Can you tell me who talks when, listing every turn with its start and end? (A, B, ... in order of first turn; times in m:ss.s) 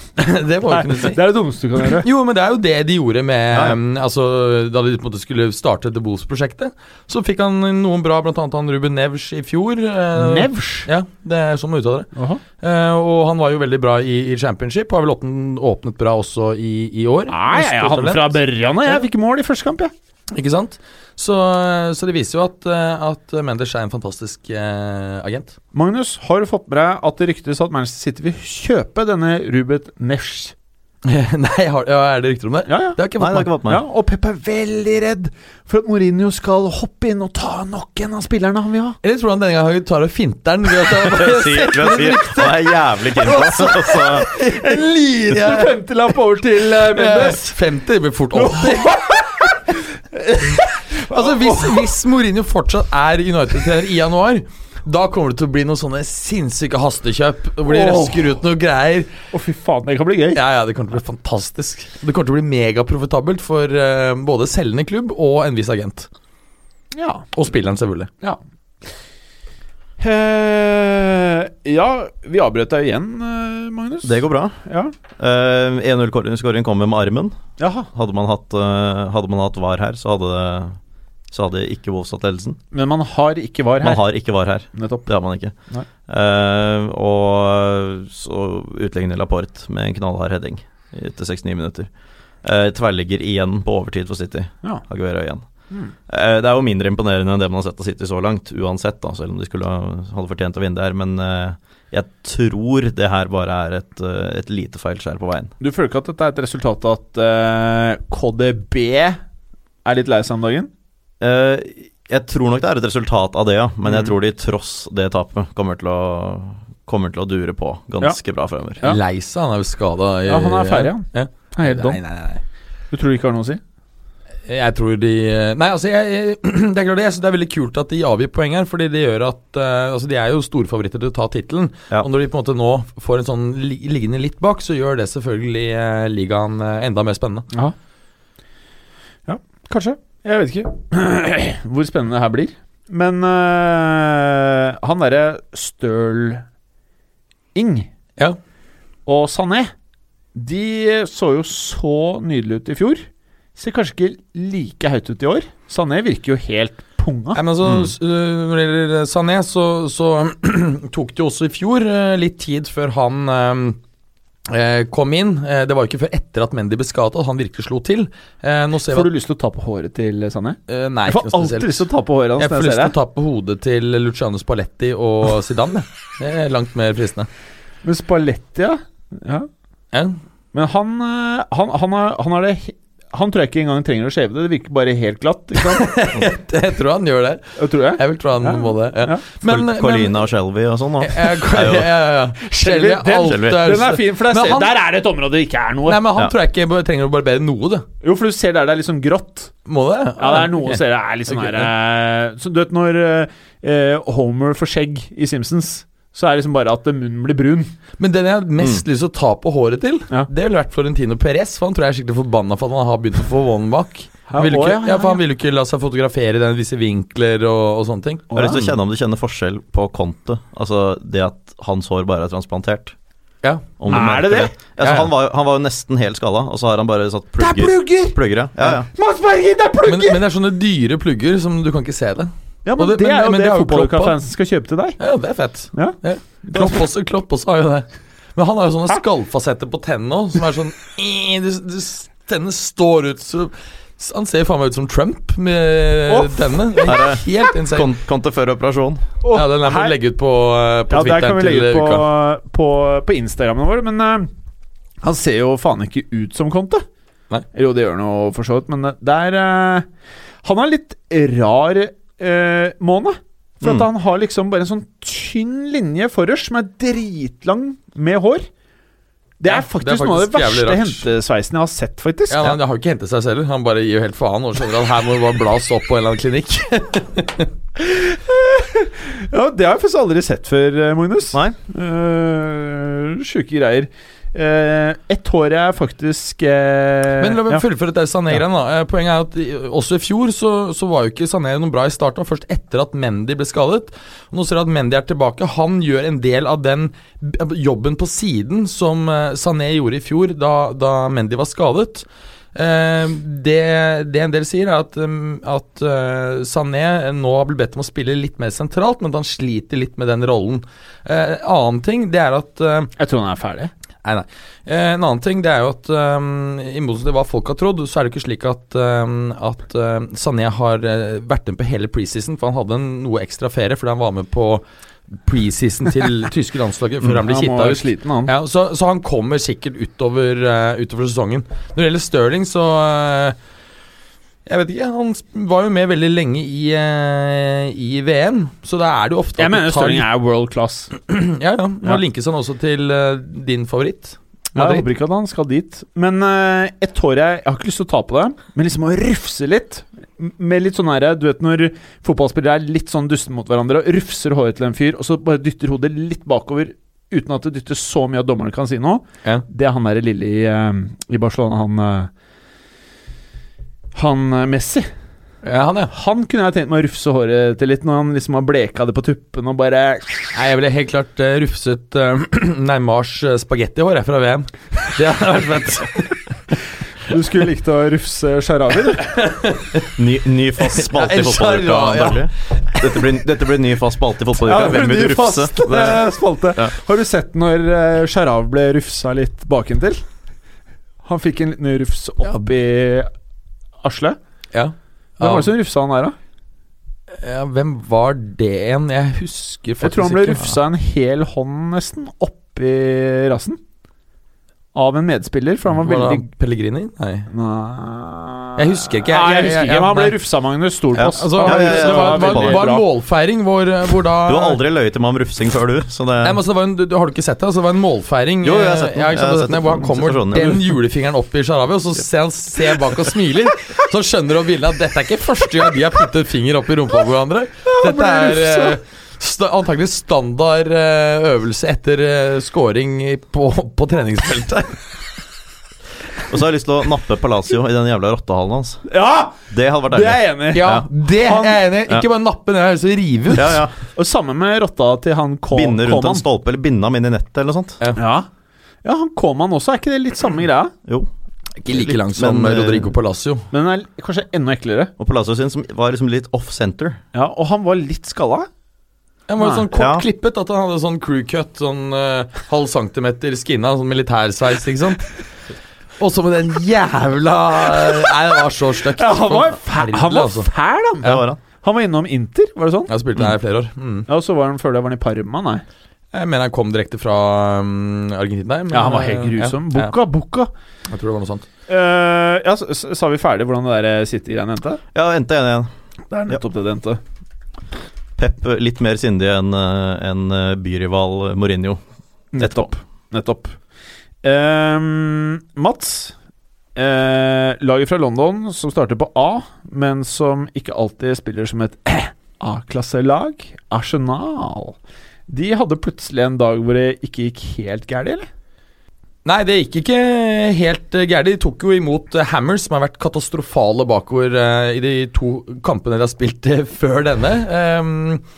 0:00.2-0:01.2 A
0:00.6-0:02.1 B
0:01.8-0:18.4 A
0:03.5-0:03.8 C
0:10.2-0:10.9 B
0:12.2-0:12.4 B
0:17.3-0:19.9 B
0:20.3-0:25.6 A
0:25.7-0:30.6 B
0:31.0-0:33.5 A
0:32.7-0:33.0 B
0:33.2-0:33.8 C
0:33.6-0:39.0 B
0:39.0-0:45.8 A
0:41.0-0:44.3 C
0:44.3-0:47.4 B
0:46.7-0:49.0 A
0:48.3-0:51.9 B
0:50.9-0:59.1 A
0:57.7-0:58.4 B
0:59.3-1:00.4 B
1:00.3-1:06.1 A
1:06.9-1:07.3 B
1:07.3-1:08.1 A
1:10.0-1:14.9 B
1:14.0-1:14.6 C
1:15.2-1:20.8 C
1:17.6-1:17.9 B
1:21.3-1:22.6 C
1:22.7-1:24.0 B
1:23.8-1:25.5 C
1:24.7-1:25.1 B
1:26.1-1:31.9 C
1:32.4-1:35.4 C
1:36.1-1:45.5 C
1:45.6-1:49.2 B
1:49.8-1:50.7 B
1:51.2-1:58.8 C
1:58.8-2:02.4 A
2:00.3-2:02.0 B
2:02.9-2:03.6 B
2:04.5-2:17.5 A
2:19.3-2:26.4 B
2:27.6-2:27.9 B
2:29.1-2:29.7 B
2:30.4-2:37.4 B
2:37.4-2:43.8 A
2:37.6-2:37.9 C
2:44.5-2:49.1 A
2:48.9-2:53.0 B
2:50.7-2:51.9 A
2:52.4-2:57.3 A
2:57.8-2:59.5 B
2:59.9-3:00.2 A
3:00.5-3:06.1 B
3:05.6-3:10.2 A
3:07.6-3:09.2 B
3:09.4-3:11.9 C
3:11.0-3:14.7 A
3:12.4-3:16.0 B
3:13.2-3:13.6 C
3:15.9-3:17.9 A
3:18.0-3:19.5 B
3:19.7-3:21.7 A
3:20.2-3:27.7 B
3:28.0-3:38.5 A
3:34.3-3:35.2 B
3:38.3-3:38.7 B
3:38.4-3:43.0 C
3:43.4-3:44.1 A
3:43.8-3:48.9 C
3:43.9-3:44.5 B
3:44.8-3:45.1 A
3:47.4-3:50.2 B
3:49.9-3:54.2 A
3:52.6-3:55.0 B
3:55.0-4:07.9 A
3:55.7-3:56.8 B
4:06.1-4:07.0 B
4:06.8-4:09.0 C
4:09.2-4:10.0 B
4:09.3-4:12.0 A
4:10.9-4:14.3 B
4:15.0-4:16.8 B
4:17.5-4:19.9 B
4:20.4-4:28.5 B
4:29.4-4:32.6 B
4:29.5-4:31.1 A
4:32.3-4:37.5 A
4:37.8-4:47.6 B
4:47.2-5:12.9 A
5:13.0-5:13.7 B
5:14.0-5:33.4 A
5:27.1-5:28.3 B
5:34.5-5:40.1 A
5:39.4-5:40.9 B
5:41.0-5:44.8 A
5:44.6-6:02.1 B
6:04.0-6:04.9 B
6:05.4-6:05.9 A
6:05.9-6:10.4 B
6:10.3-6:16.3 A
6:17.1-6:19.1 B
6:19.0-6:19.9 A
6:20.0-6:26.0 C
6:20.6-6:23.0 A
6:24.4-6:30.0 B
6:31.0-6:33.1 B
6:33.8-6:34.2 B
6:34.5-6:35.5 A
6:35.2-6:36.2 B
6:37.2-6:40.5 A
6:39.8-6:43.6 B
6:44.7-6:46.3 B
6:45.7-6:47.3 A
6:47.3-6:52.8 B
6:48.6-6:50.2 A
6:50.9-6:52.7 C
6:51.0-6:54.6 A
6:54.2-6:56.4 C
6:56.2-7:14.9 A
6:58.4-7:00.7 C
7:07.7-7:08.8 B
7:16.3-7:18.8 C
7:18.9-7:21.6 B
7:19.5-7:20.9 C
7:20.5-7:23.6 A
7:23.3-7:23.8 C
7:24.0-7:26.2 B
7:25.5-7:27.8 C
7:28.0-7:28.3 B
7:28.8-7:30.7 B
7:31.6-7:33.5 A
7:31.7-7:32.9 C
7:33.5-7:34.9 B
7:35.0-7:37.0 C
7:37.1-7:38.5 B
7:39.3-7:45.2 A
7:39.4-7:39.6 B
7:39.7-7:40.0 C
7:46.0-7:50.5 A
7:49.0-7:52.9 B
7:51.0-7:51.4 C
7:52.9-7:54.1 A
7:54.1-7:55.6 B
7:56.1-7:59.9 A
7:58.7-8:00.5 B
8:00.9-8:01.5 A
8:01.7-8:04.8 B
8:04.9-8:05.7 C
8:06.1-8:07.0 B
8:08.2-8:11.8 C
8:12.3-8:13.6 B
8:12.4-8:12.7 C
8:14.2-8:16.2 B
8:16.8-8:24.8 B
8:25.3-8:28.3 B
8:29.2-8:38.2 A